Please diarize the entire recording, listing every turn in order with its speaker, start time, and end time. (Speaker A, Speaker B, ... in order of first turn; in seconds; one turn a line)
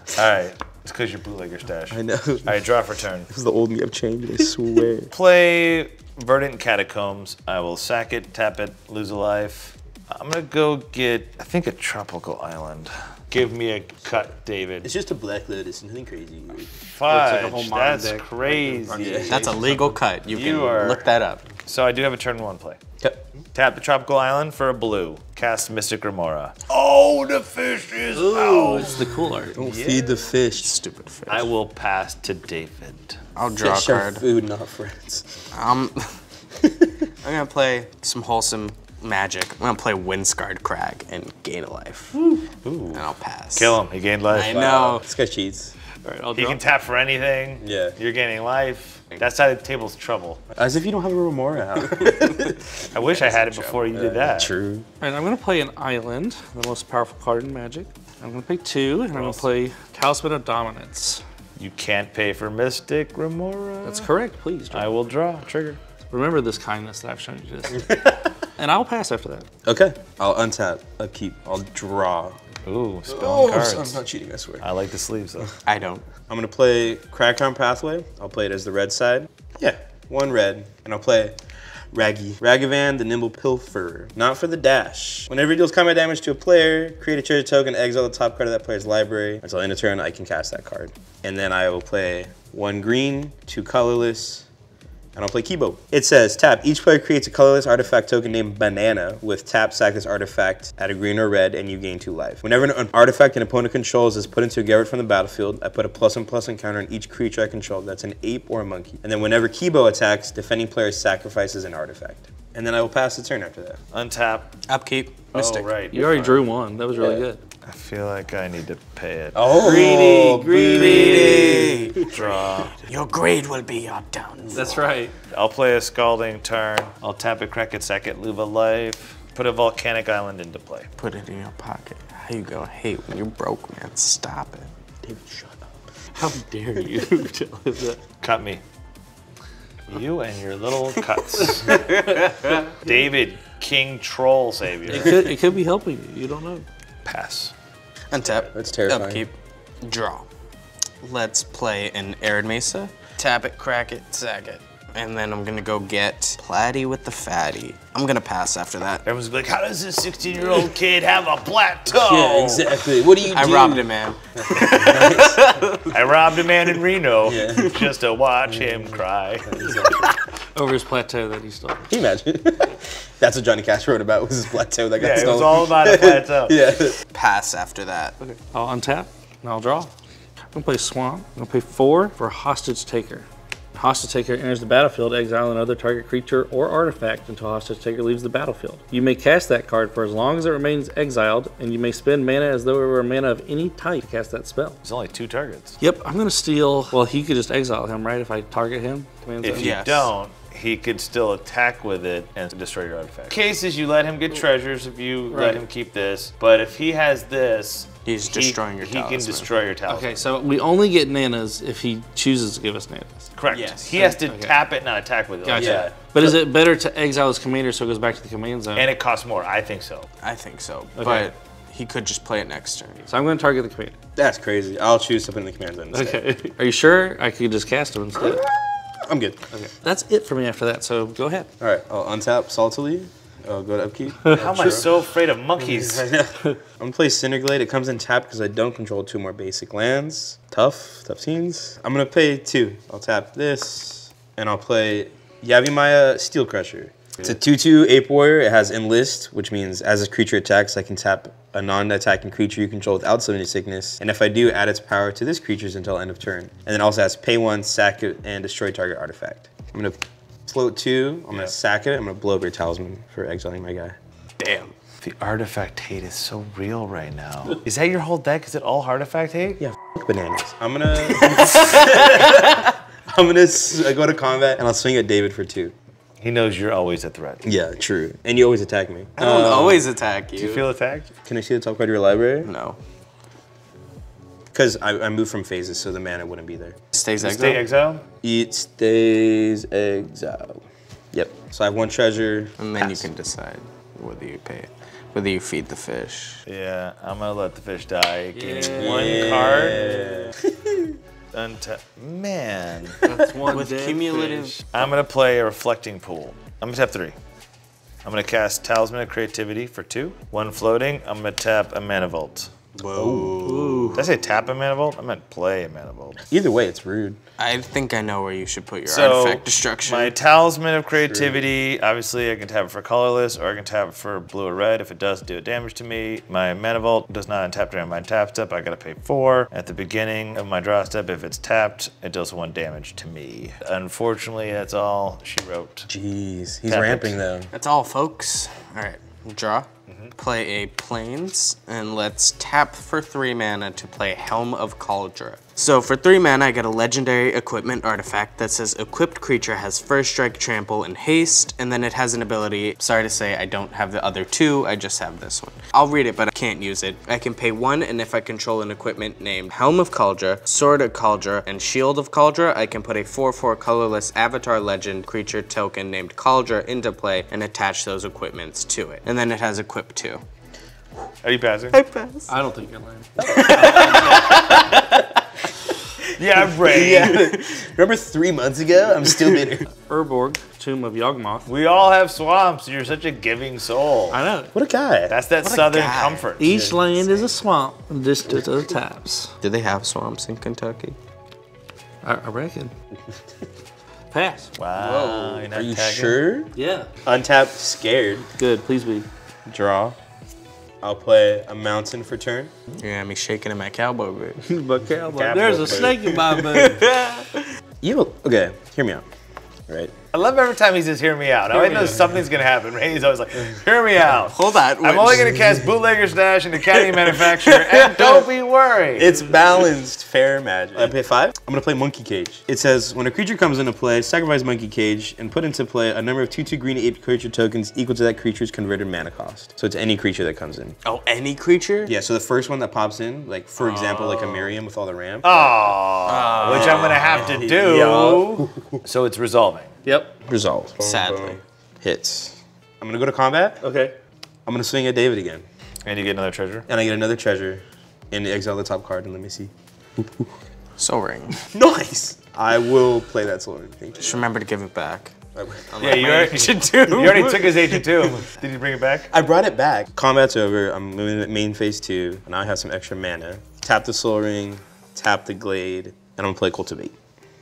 Speaker A: 0.1-3.3
Speaker B: 1.9-2.6
Speaker B: 3.3-5.1
Speaker A: 5.1-14.9
Speaker B: 14.8-16.7
Speaker A: 16.9-19.4
Speaker C: 17.1-20.0
Speaker B: 18.9-19.5
Speaker D: 19.3-21.4
Speaker A: 20.3-21.1
Speaker A: 21.7-22.8
Speaker B: 23.0-23.3
Speaker A: 23.5-29.0
Speaker C: 28.1-29.6
Speaker B: 29.6-30.8
Speaker A: 29.6-30.1
Speaker D: 30.6-31.5
Speaker A: 31.3-33.2
Speaker D: 33.4-34.2
Speaker B: 33.6-35.4
Speaker D: 35.5-36.2
Speaker B: 36.6-37.1
Speaker D: 37.2-42.2
Speaker C: 42.2-42.4
Speaker A: 42.6-44.6
Speaker D: 42.9-43.8
Speaker D: 44.3-45.0
Speaker B: 44.4-45.8
Speaker C: 46.0-46.6
Speaker A: 46.4-50.4
Speaker B: 47.6-48.0
Speaker B: 50.6-52.8
Speaker D: 52.1-54.0
Speaker A: 52.9-54.5
Speaker B: 53.9-54.9
Speaker C: 55.0-61.2
Speaker A: 61.6-64.1
Speaker C: 63.8-64.9
Speaker A: 64.7-65.8
Speaker C: 66.1-68.0
Speaker B: 67.8-68.2
Speaker C: 68.6-69.5
Speaker B: 69.7-72.4
Speaker A: 72.7-74.0
Speaker B: 73.1-74.7
Speaker A: 74.6-75.5
Speaker D: 75.7-76.1
Speaker B: 76.3-81.4
Speaker B: 81.9-94.5
Speaker B: 95.2-113.8
Speaker A: 113.9-114.5
Speaker D: 114.7-115.7
Speaker A: 115.3-116.4
Speaker C: 115.9-117.4
Speaker B: 117.0-117.2
Speaker A: 117.7-119.9
Speaker B: 119.3-122.1
Speaker C: 119.5-121.7
Speaker D: 120.8-124.8
Speaker A: 120.8-122.8
Speaker C: 124.5-125.1
Speaker A: 125.3-130.9
Speaker D: 131.0-134.7
Speaker B: 135.0-135.7
Speaker C: 136.2-138.0
Speaker A: 138.2-138.6
Speaker A: 139.9-142.1
Speaker D: 141.7-142.6
Speaker A: 142.7-145.3
Speaker C: 144.9-146.7
Speaker A: 147.1-147.5
Speaker D: 148.1-150.3
Speaker B: 148.5-149.3
Speaker D: 151.0-159.0
Speaker A: 159.1-162.8
Speaker B: 161.9-163.9
Speaker D: 163.2-165.8
Speaker B: 164.5-165.4
Speaker A: 165.9-169.8
Speaker B: 167.2-167.8
Speaker B: 169.5-170.1
Speaker C: 170.6-171.9
Speaker B: 171.9-177.0
Speaker A: 175.0-176.6
Speaker D: 177.1-178.4
Speaker C: 178.5-179.9
Speaker C: 180.5-194.8
Speaker A: 194.8-195.8
Speaker C: 195.8-199.7
Speaker A: 199.4-210.2
Speaker D: 199.5-200.1
Speaker C: 205.3-205.6
Speaker D: 208.1-209.5
Speaker C: 209.9-213.3
Speaker A: 213.4-215.9
Speaker B: 213.5-214.0
Speaker C: 214.0-214.5
Speaker C: 215.5-218.9
Speaker B: 215.5-215.9
Speaker A: 218.8-220.1
Speaker D: 220.2-223.1
Speaker A: 221.0-221.3
Speaker C: 223.1-223.9
Speaker B: 224.2-226.2
Speaker C: 225.9-228.5
Speaker B: 228.2-229.4
Speaker C: 229.5-231.5
Speaker B: 231.6-235.0
Speaker A: 234.3-236.1
Speaker B: 235.6-264.0
Speaker D: 264.4-264.7
Speaker A: 265.0-269.6
Speaker B: 269.6-275.8
Speaker D: 271.3-272.7
Speaker A: 276.2-277.5
Speaker B: 277.4-279.8
Speaker D: 279.2-280.7
Speaker A: 279.3-279.8
Speaker A: 280.4-281.1
Speaker B: 281.2-282.5
Speaker D: 282.4-282.8
Speaker B: 284.5-286.8
Speaker D: 286.9-287.7
Speaker A: 287.2-288.1
Speaker B: 288.2-292.9
Speaker D: 292.6-296.4
Speaker A: 296.5-299.8
Speaker C: 298.3-300.4
Speaker B: 298.8-301.0
Speaker A: 301.3-303.1
Speaker D: 303.1-304.6
Speaker C: 303.1-304.7
Speaker A: 304.7-307.2
Speaker A: 308.0-312.5
Speaker D: 312.8-314.1
Speaker B: 312.9-313.6
Speaker C: 313.4-314.0
Speaker A: 314.0-316.2
Speaker B: 316.3-317.2
Speaker D: 317.4-320.1
Speaker A: 318.9-335.9
Speaker B: 321.0-321.4
Speaker B: 335.9-337.5
Speaker A: 336.7-337.2
Speaker D: 337.5-370.2
Speaker A: 339.9-340.1
Speaker A: 371.2-371.8
Speaker D: 371.7-372.3
Speaker C: 372.3-373.8
Speaker D: 373.3-374.7
Speaker B: 373.4-374.0
Speaker A: 373.6-374.6
Speaker A: 376.2-377.3
Speaker B: 376.6-379.7
Speaker D: 376.9-377.4
Speaker C: 379.9-381.5
Speaker A: 381.5-384.2
Speaker C: 384.1-384.5
Speaker B: 384.5-385.2
Speaker A: 385.1-386.6
Speaker D: 385.4-386.3
Speaker C: 386.4-389.3
Speaker B: 386.5-386.9
Speaker D: 389.4-391.0
Speaker C: 392.0-392.7
Speaker C: 394.1-394.5
Speaker A: 394.6-396.2
Speaker D: 394.8-395.5
Speaker B: 395.5-396.5
Speaker C: 396.6-396.9
Speaker B: 397.1-398.3
Speaker C: 398.4-399.1
Speaker B: 399.5-400.0
Speaker B: 400.8-402.5
Speaker D: 402.8-404.4
Speaker C: 404.4-406.8
Speaker A: 405.1-406.1
Speaker B: 405.6-406.2
Speaker D: 406.2-407.5
Speaker B: 407.8-409.0
Speaker B: 409.7-409.9
Speaker A: 410.1-419.2
Speaker C: 411.6-411.8
Speaker B: 411.7-412.1
Speaker D: 414.3-415.4
Speaker D: 416.6-418.3
Speaker B: 418.9-430.8
Speaker D: 430.8-431.9
Speaker B: 431.9-435.8
Speaker D: 433.6-434.5
Speaker A: 435.2-439.7
Speaker D: 436.1-437.5
Speaker B: 436.4-438.8
Speaker C: 439.9-440.2
Speaker B: 440.2-443.6
Speaker D: 440.8-441.4
Speaker C: 443.6-443.9
Speaker B: 444.5-445.5
Speaker A: 445.9-446.7
Speaker B: 446.7-450.3
Speaker D: 450.8-451.4
Speaker B: 451.5-454.3
Speaker D: 454.0-455.1
Speaker B: 455.4-456.0
Speaker D: 455.7-457.8
Speaker A: 455.8-459.1
Speaker B: 459.1-467.0